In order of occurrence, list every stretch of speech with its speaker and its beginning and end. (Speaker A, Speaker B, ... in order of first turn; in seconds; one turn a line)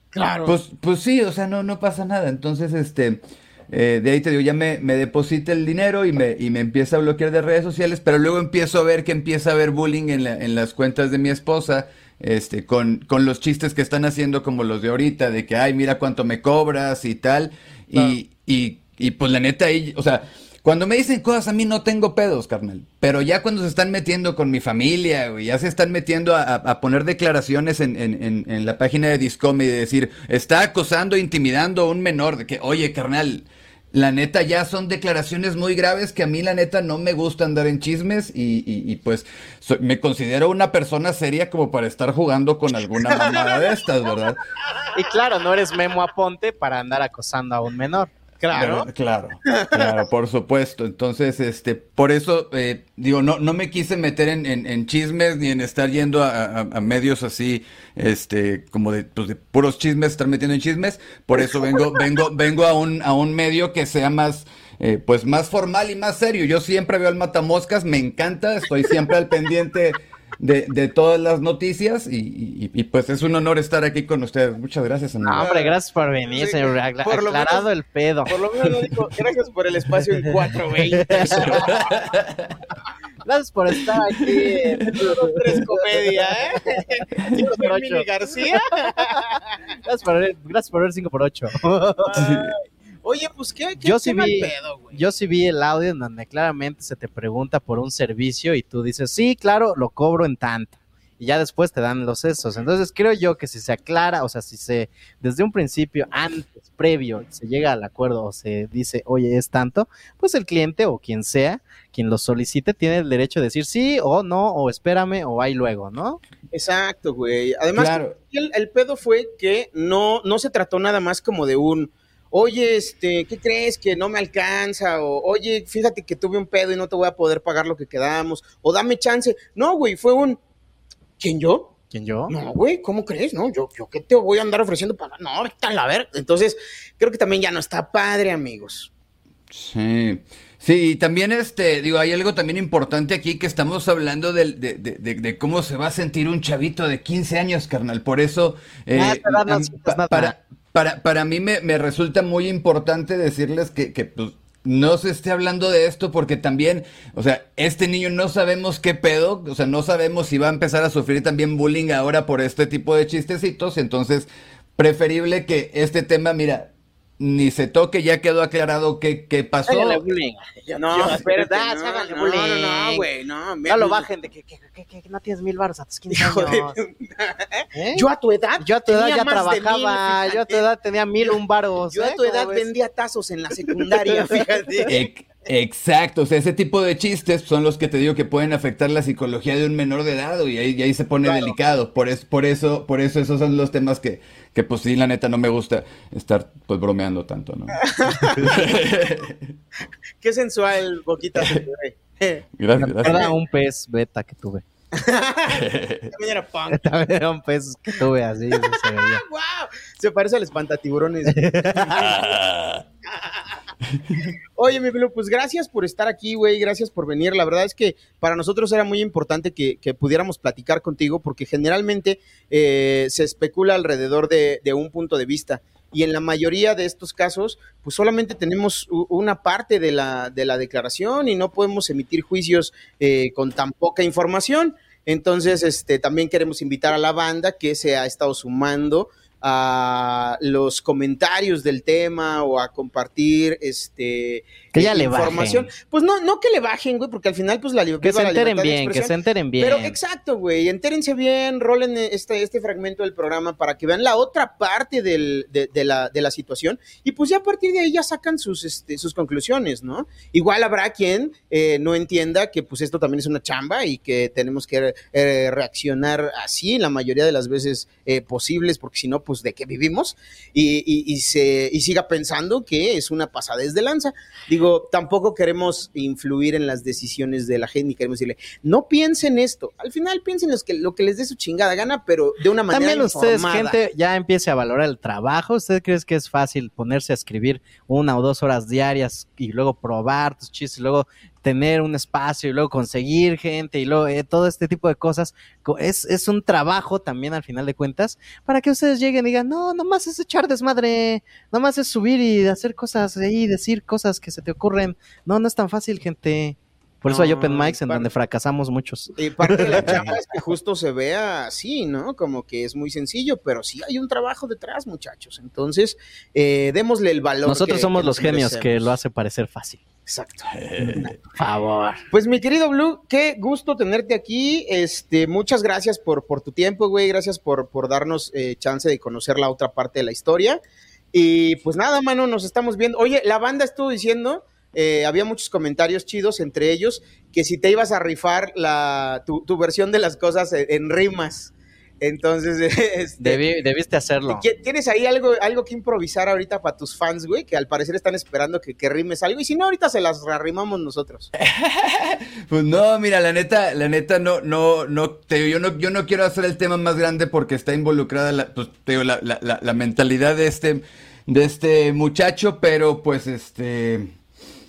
Speaker A: 0.1-0.6
Speaker B: 0.5-44.4
Speaker C: 44.9-48.1
Speaker A: 48.4-48.9
Speaker B: 48.5-75.5
Speaker C: 75.2-78.3
Speaker A: 75.4-75.7
Speaker A: 76.3-77.7
Speaker A: 78.3-81.9
Speaker C: 81.0-81.7
Speaker B: 81.4-82.5
Speaker C: 83.2-85.3
Speaker A: 84.9-89.6
Speaker C: 85.8-86.8
Speaker C: 87.4-88.1
Speaker C: 89.8-92.1
Speaker A: 92.0-95.0
Speaker B: 92.1-92.5
Speaker C: 93.8-116.2
Speaker A: 116.5-130.4
Speaker B: 117.8-118.2
Speaker A: 131.2-131.7
Speaker C: 131.9-132.3
Speaker A: 132.3-138.9
Speaker B: 139.5-170.0
Speaker C: 148.9-150.3
Speaker C: 169.7-173.1
Speaker A: 170.7-174.1
Speaker C: 173.7-176.8
Speaker A: 176.1-180.7
Speaker C: 177.7-178.1
Speaker C: 178.6-182.7
Speaker A: 181.2-185.0
Speaker C: 183.9-184.8
Speaker B: 184.9-197.8
Speaker A: 191.2-191.6
Speaker A: 197.9-198.6
Speaker B: 198.4-199.5
Speaker A: 200.2-202.4
Speaker B: 201.4-201.7
Speaker B: 202.6-203.3
Speaker C: 202.8-204.6
Speaker A: 204.9-206.8
Speaker B: 205.5-206.1
Speaker C: 206.7-209.2
Speaker A: 208.5-212.3
Speaker C: 211.3-212.1
Speaker B: 212.0-212.8
Speaker A: 213.1-213.5
Speaker A: 214.6-283.8
Speaker C: 244.7-245.7
Speaker C: 248.0-250.0
Speaker C: 282.7-310.2
Speaker A: 307.1-308.1
Speaker A: 309.2-318.9
Speaker C: 317.4-319.8
Speaker A: 320.1-320.5
Speaker B: 320.5-321.1
Speaker C: 320.8-322.0
Speaker A: 322.1-330.6
Speaker A: 331.1-343.4
Speaker C: 343.2-344.4
Speaker A: 344.3-351.3
Speaker B: 351.4-364.1